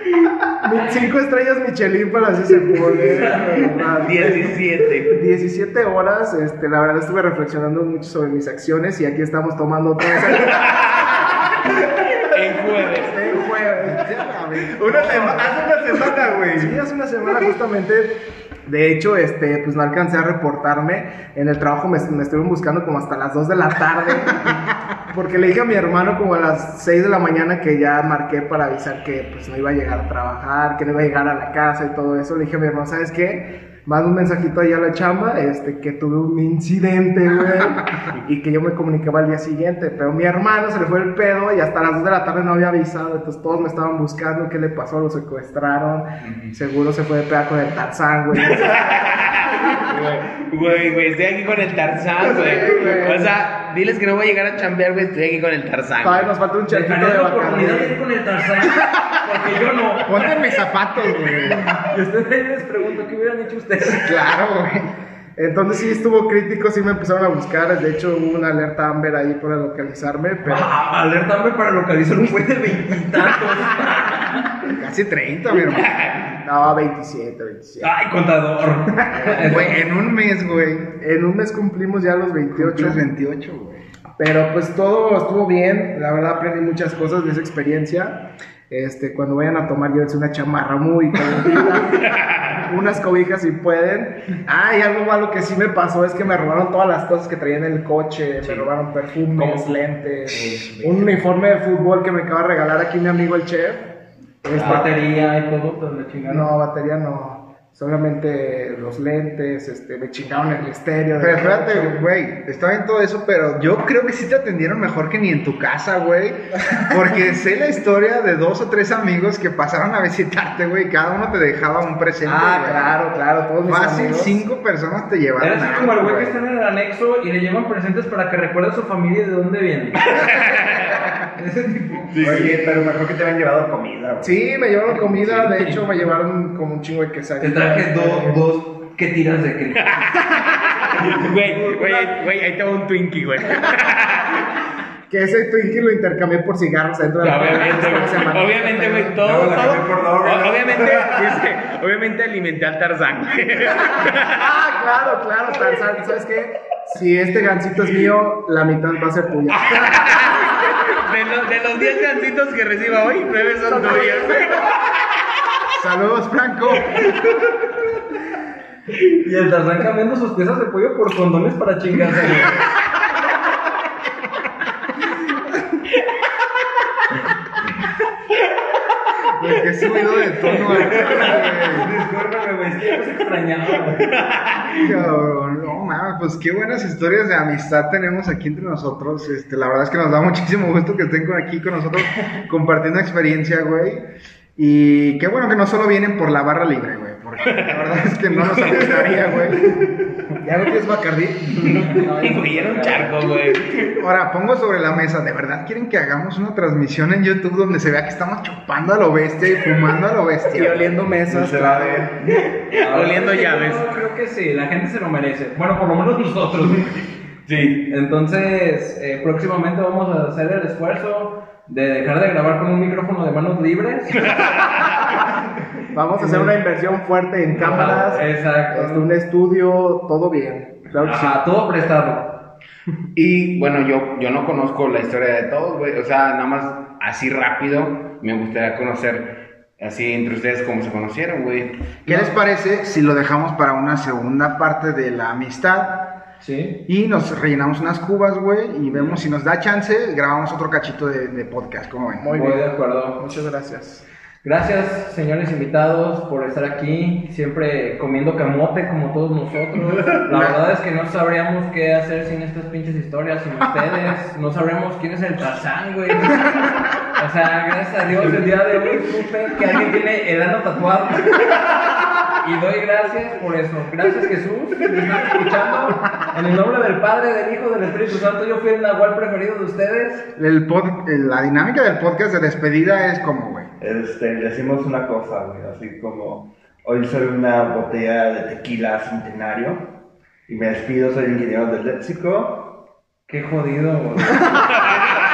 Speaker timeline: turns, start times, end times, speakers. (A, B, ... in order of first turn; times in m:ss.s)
0:00.6-0:04.4 A
0:03.3-0:05.2 B
0:05.1-0:11.0 A
0:10.3-0:13.4 B
0:12.8-0:14.3 A
0:13.8-0:15.4 C
0:14.8-0:15.6 A
0:14.8-0:16.8 D
0:16.1-0:49.8 A
0:48.4-0:56.3 B
0:52.2-0:53.3 A
0:56.0-0:58.0 A
0:56.7-1:00.4 E
1:00.0-1:01.8 C
1:01.4-1:04.2 E
1:03.9-1:04.9 C
1:05.4-1:10.8 A
1:10.4-1:14.6 E
1:14.7-1:15.9 C
1:15.7-1:16.3 B
1:16.4-1:17.9 A
1:17.8-1:19.8 E
1:19.1-1:19.8 A
1:19.4-1:21.0 C
1:21.0-1:23.0 A
1:22.5-1:23.9 C
1:24.2-1:44.9 A
1:32.0-1:32.7 B
1:38.4-1:38.7 B
1:39.3-1:41.2 B
1:44.5-1:44.9 B
1:44.5-1:46.5 E
1:46.3-1:52.0 A
1:51.2-2:03.0 C
2:02.2-2:04.4 A
2:03.6-2:06.4 C
2:05.4-2:10.2 E
2:10.1-2:11.1 B
2:11.4-2:12.5 E
2:12.1-2:12.6 B
2:12.2-2:14.3 D
2:14.2-2:18.4 A
2:14.9-2:15.8 B
2:17.4-2:20.0 E
2:19.8-2:24.5 B
2:21.0-2:22.1 E
2:25.1-2:29.2 A
2:27.2-2:34.6 B
2:29.2-2:31.4 D
2:34.2-2:40.1 A
2:39.5-2:45.0 B
2:43.7-2:44.7 A
2:45.8-2:47.0 C
2:49.2-2:52.6 E
2:59.4-3:01.9 C
3:00.6-3:00.8 B
3:00.9-3:04.3 E
3:00.9-3:03.0 D
3:03.9-3:05.0 B
3:04.7-3:19.8 C
3:17.4-3:19.0 B
3:20.4-3:21.5 A
3:21.5-3:24.0 B
3:21.7-3:23.3 E
3:23.9-3:31.0 C
3:30.5-3:32.1 A
3:31.3-3:32.2 D
3:32.3-3:33.9 B
3:32.7-3:37.0 E
3:37.5-3:37.7 B
3:37.5-3:44.5 E
3:44.3-3:44.6 B
3:45.9-3:51.4 A
3:46.2-3:46.6 E
3:47.6-3:49.1 E
3:51.0-3:52.4 E
3:53.2-4:01.9 B
4:02.1-4:06.2 C
4:06.4-4:06.9 E
4:06.9-4:12.3 C
4:08.9-4:09.2 B
4:12.2-4:14.0 A
4:12.3-4:13.2 E
4:14.4-4:31.6 E
4:32.4-4:40.3 E
4:40.4-4:43.7 C
4:43.8-4:49.9 D
4:50.5-4:52.8 D
4:53.3-4:55.0 E